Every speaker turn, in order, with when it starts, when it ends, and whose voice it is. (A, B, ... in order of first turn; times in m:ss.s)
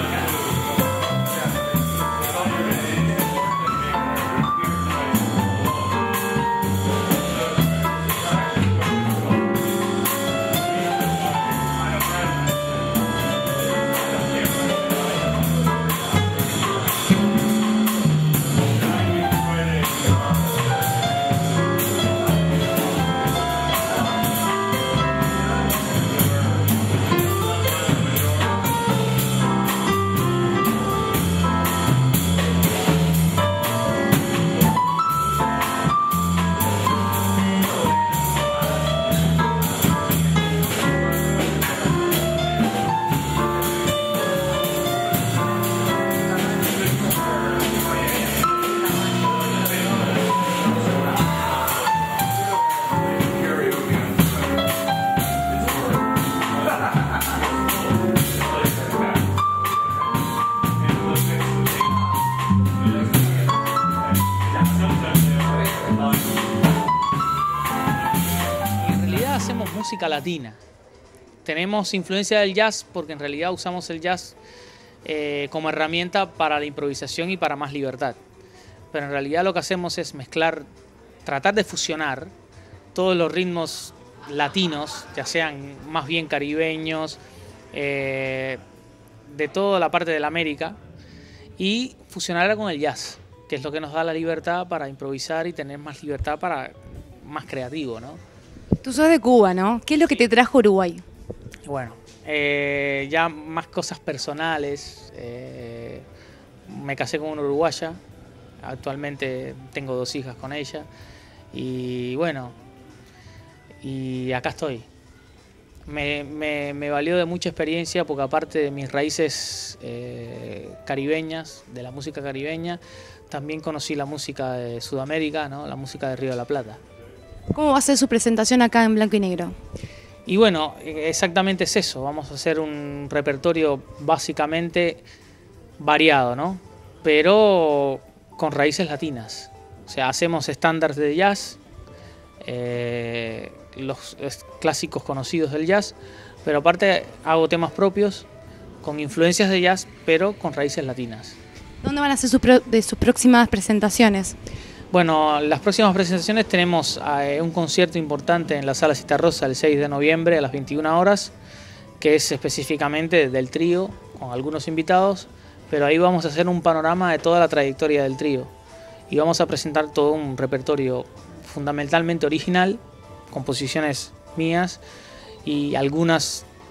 1:08.8-1:10.6 A
1:11.4-1:14.4 A
1:15.0-1:18.2 A
1:18.9-1:20.7 A
1:21.2-1:22.3 A
1:22.9-1:27.2 A
1:27.7-1:28.6 A
1:29.3-1:30.8 A
1:31.6-1:38.2 A
1:38.8-1:41.0 B
1:41.6-1:46.0 A
1:46.7-1:48.0 A
1:48.6-1:50.9 A
1:51.5-1:52.5 A
1:53.8-1:54.9 A
1:55.9-2:06.8 A
2:07.5-2:09.6 B
2:10.3-2:15.0 A
2:15.8-2:21.6 A
2:22.4-2:28.3 A
2:28.8-2:31.4 A
2:31.8-2:34.3 B
2:34.9-2:41.3 A
2:42.0-2:48.5 A
2:49.1-2:54.8 A
2:55.4-2:56.4 A